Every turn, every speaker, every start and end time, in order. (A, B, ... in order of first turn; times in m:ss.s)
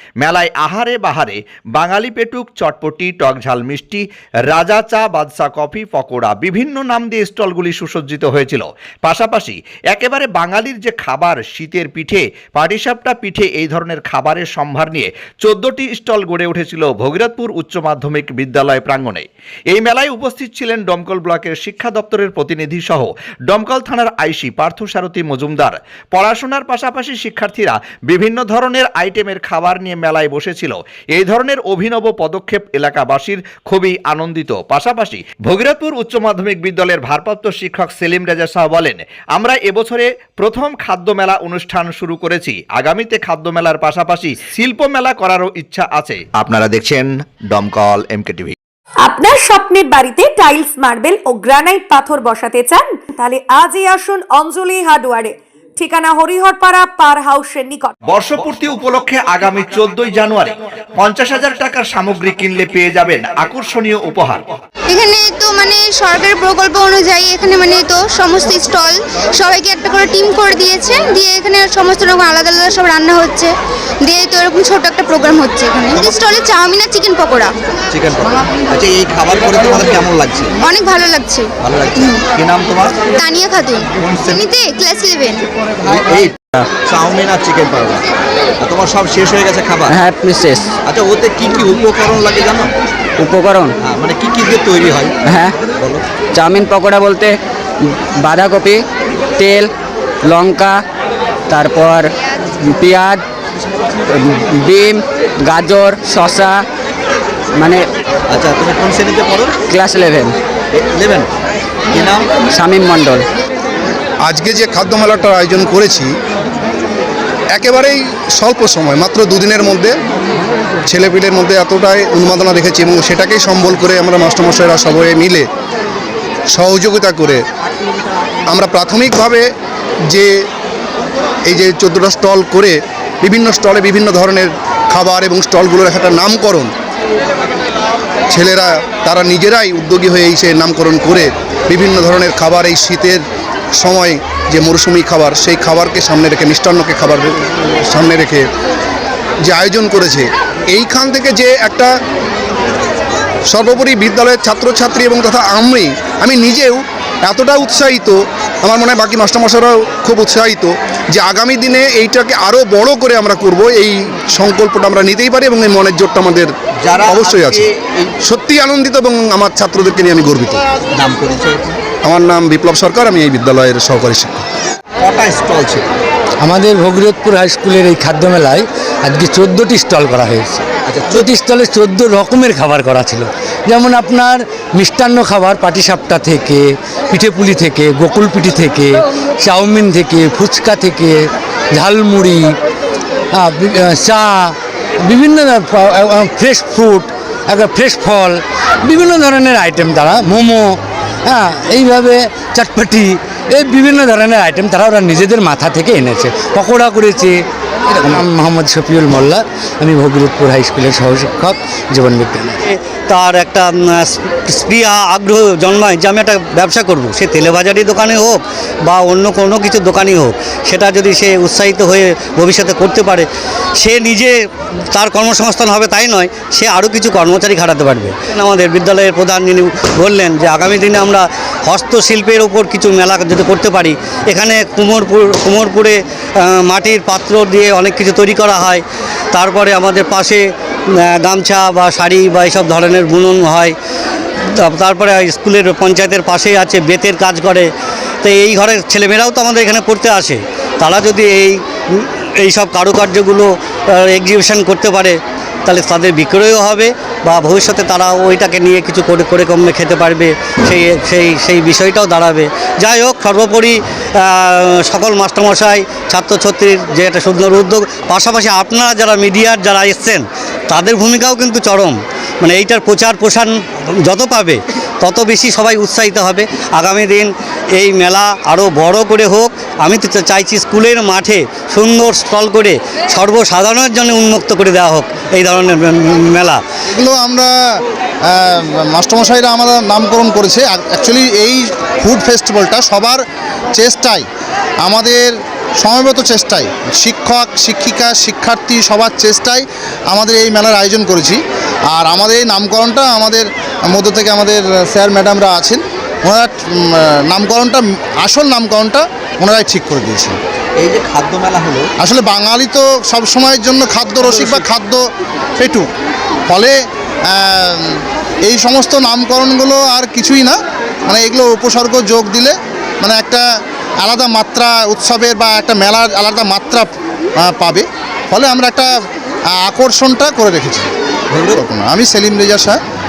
0:00.2-0:48.6 A
0:49.0-0:57.9 B
0:58.1-1:04.4 A
1:04.9-1:13.5 C
1:14.1-1:17.5 C
1:15.9-1:16.3 D
1:17.9-1:20.6 D
1:20.6-1:21.5 C
1:21.6-1:23.1 D
1:23.2-1:25.4 C
1:24.0-1:24.5 D
1:25.9-1:26.3 D
1:26.9-1:28.0 D
1:28.6-1:30.0 D
1:29.9-1:30.7 E
1:30.9-1:32.7 D
1:33.2-1:33.7 E
1:33.9-1:35.2 D
1:35.2-1:35.6 E
1:36.3-1:38.8 E
1:39.4-1:39.7 E
1:40.2-1:40.8 E
1:41.5-1:43.2 E
1:44.1-1:46.6 E
1:47.6-1:47.8 E
1:48.3-1:49.6 D
1:49.7-1:50.3 E
1:50.8-1:51.3 D
1:51.9-1:52.3 D
1:52.5-1:53.3 E
1:54.2-1:56.1 F
1:57.6-2:00.0 F
2:00.8-2:05.5 F
2:06.5-2:07.4 F
2:08.5-2:09.4 F
2:11.5-2:16.7 F
2:18.3-2:23.2 F
2:23.8-2:28.4 F
2:29.4-2:31.9 F
2:33.5-2:46.5 F
2:46.9-2:47.6 D
2:47.0-2:47.7 F
2:48.2-2:50.6 F
2:51.0-2:51.7 D
2:52.0-2:54.4 F
2:55.0-2:55.9 D
2:56.4-3:12.6 G
3:00.9-3:01.3 D
3:13.3-3:27.4 G
3:27.9-3:32.6 G
3:32.9-3:43.3 H
3:43.8-3:44.3 H
3:44.9-3:58.8 H
3:59.3-4:00.4 H
4:01.0-4:03.7 H
4:04.6-4:07.7 H
4:08.2-4:11.5 H
4:12.5-4:15.2 H
4:15.7-4:46.6 H
4:46.9-4:53.2 I
4:53.8-4:54.3 I
4:54.8-5:01.4 I
5:01.9-5:10.4 I
5:10.8-5:11.9 D
5:12.0-5:15.0 I
5:15.6-5:15.9 I
5:16.5-5:16.8 I
5:17.3-5:23.4 I
5:24.0-5:26.9 I
5:27.4-5:28.9 I
5:29.6-5:30.9 I
5:31.3-5:31.6 D
5:31.5-5:32.8 I